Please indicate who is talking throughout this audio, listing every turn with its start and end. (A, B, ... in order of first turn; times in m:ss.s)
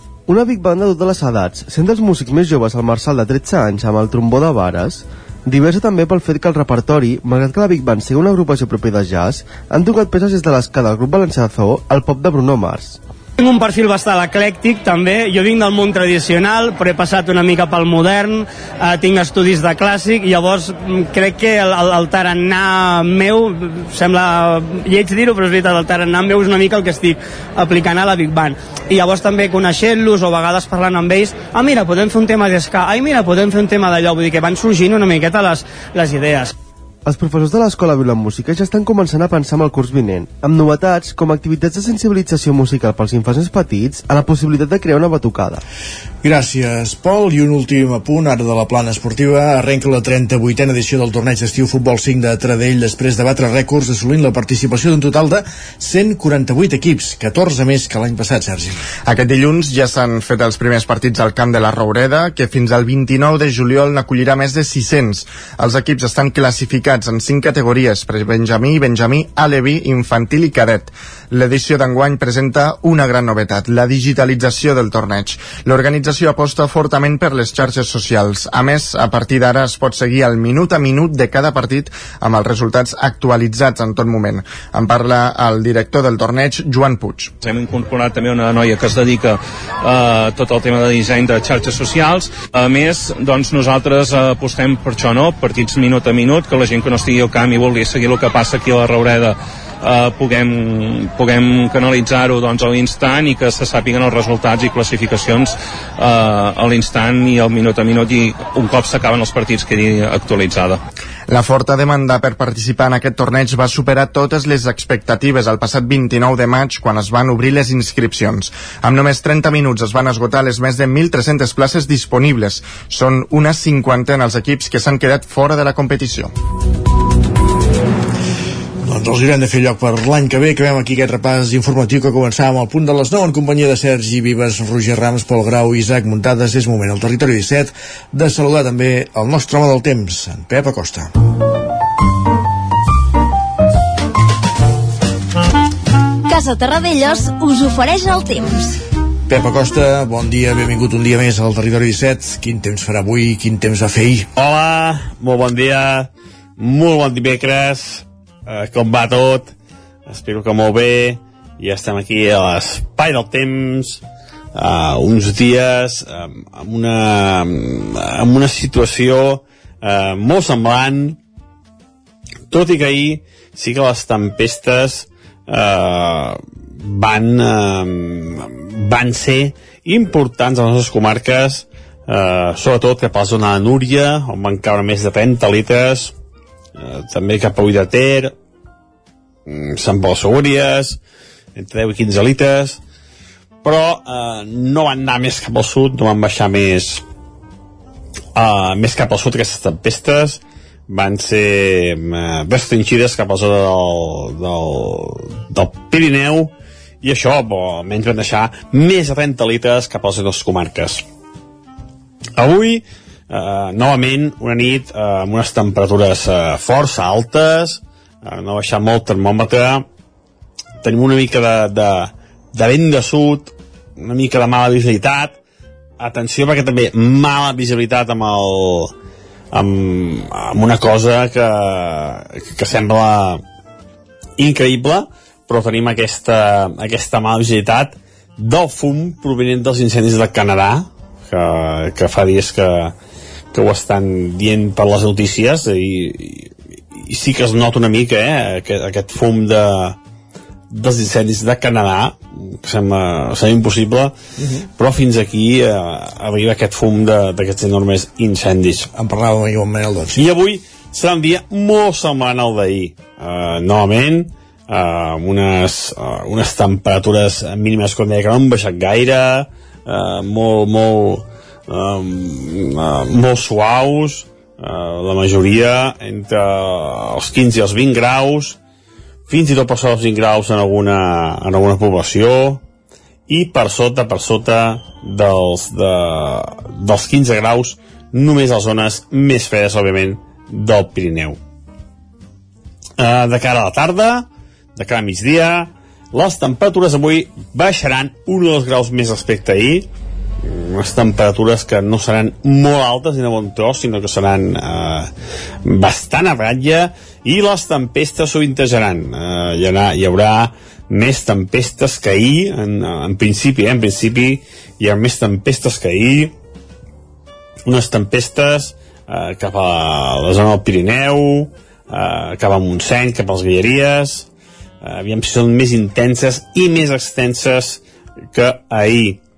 0:00.3-0:13.0 A
0:13.4-0:36.5 B
0:37.0-0:45.6 A
0:46.2-0:58.8 C
0:59.0-1:27.3 D
1:28.0-1:29.1 E
1:30.2-1:32.2 E
1:32.7-1:39.3 E
1:40.0-1:40.4 E
1:41.3-1:45.5 E
1:46.6-1:48.2 E
1:48.8-1:49.6 E
1:51.3-2:06.3 D
2:08.8-2:21.1 C
2:26.3-2:28.5 F
2:29.3-2:34.3 C
2:34.4-2:39.5 G
2:40.1-2:44.0 G
2:44.5-2:51.2 G
2:52.5-3:06.1 G
3:06.8-3:08.3 G
3:09.5-3:11.0 G
3:11.6-3:12.8 G
3:13.6-3:17.0 G
3:18.4-3:26.5 G
3:27.0-3:31.0 G
3:32.4-3:39.8 G
3:40.8-3:45.4 G
3:46.0-3:48.9 G
3:49.5-3:53.4 G
3:54.4-4:02.9 G
4:03.5-4:10.0 G
4:10.7-4:14.1 G
4:14.4-4:14.6 C
4:14.8-4:18.9 G
4:18.9-4:20.2 C
4:20.1-4:38.6 G
4:39.3-4:42.6 G
4:43.3-4:51.4 G
4:53.0-4:59.9 G
5:00.4-5:05.1 G
5:05.6-5:16.3 G
5:17.6-5:24.2 G
5:24.8-5:27.8 G
5:28.3-5:29.2 G